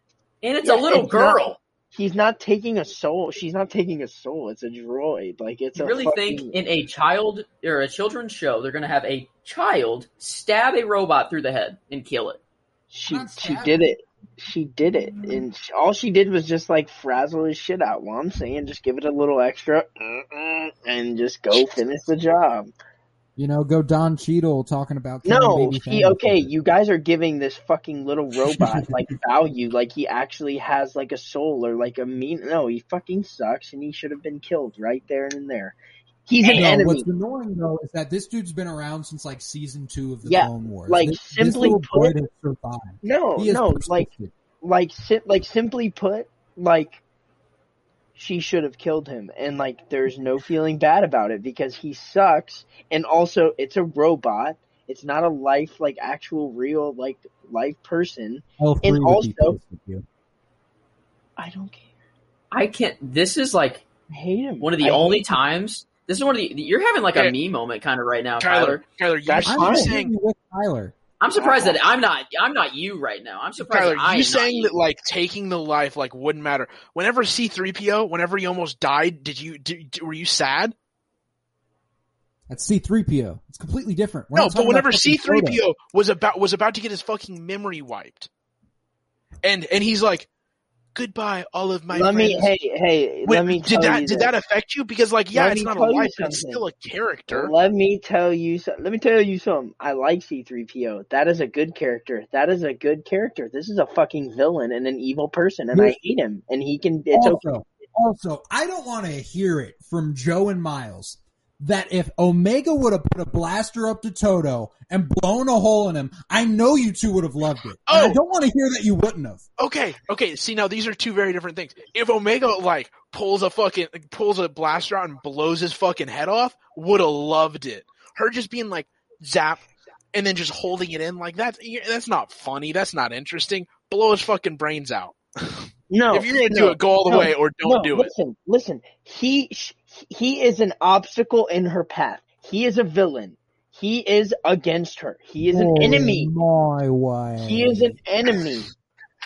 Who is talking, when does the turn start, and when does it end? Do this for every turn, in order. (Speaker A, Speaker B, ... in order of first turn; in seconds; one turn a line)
Speaker A: 0.4-1.6
Speaker B: 0.6-6.5
Speaker A: 5.8-12.4
Speaker B: 12.9-22.7
Speaker C: 13.1-13.8
Speaker C: 23.4-26.5
Speaker B: 25.2-37.1
Speaker C: 28.5-29.1
Speaker C: 36.5-44.3
Speaker B: 40.2-42.1
Speaker B: 43.0-44.1
Speaker B: 44.6-47.0
Speaker B: 48.1-59.6
Speaker C: 58.6-60.0
Speaker B: 61.4-61.9
Speaker A: 62.5-63.8
Speaker B: 64.1-65.3
Speaker A: 64.6-68.8
Speaker D: 68.4-70.1
Speaker B: 69.3-69.9
Speaker C: 69.5-70.9
Speaker A: 71.2-74.7
Speaker B: 71.3-71.8
Speaker D: 73.6-80.7
Speaker C: 82.5-85.6
Speaker D: 84.3-88.3
Speaker D: 89.4-90.3
Speaker D: 90.9-92.5
Speaker B: 91.9-94.3
Speaker D: 93.2-97.5
Speaker B: 95.3-96.6
Speaker B: 97.3-107.4
Speaker C: 107.1-119.4
Speaker D: 117.9-118.2
Speaker D: 119.6-129.6
Speaker D: 130.1-138.1
Speaker B: 135.9-146.3
Speaker C: 145.4-148.0
Speaker B: 147.4-148.7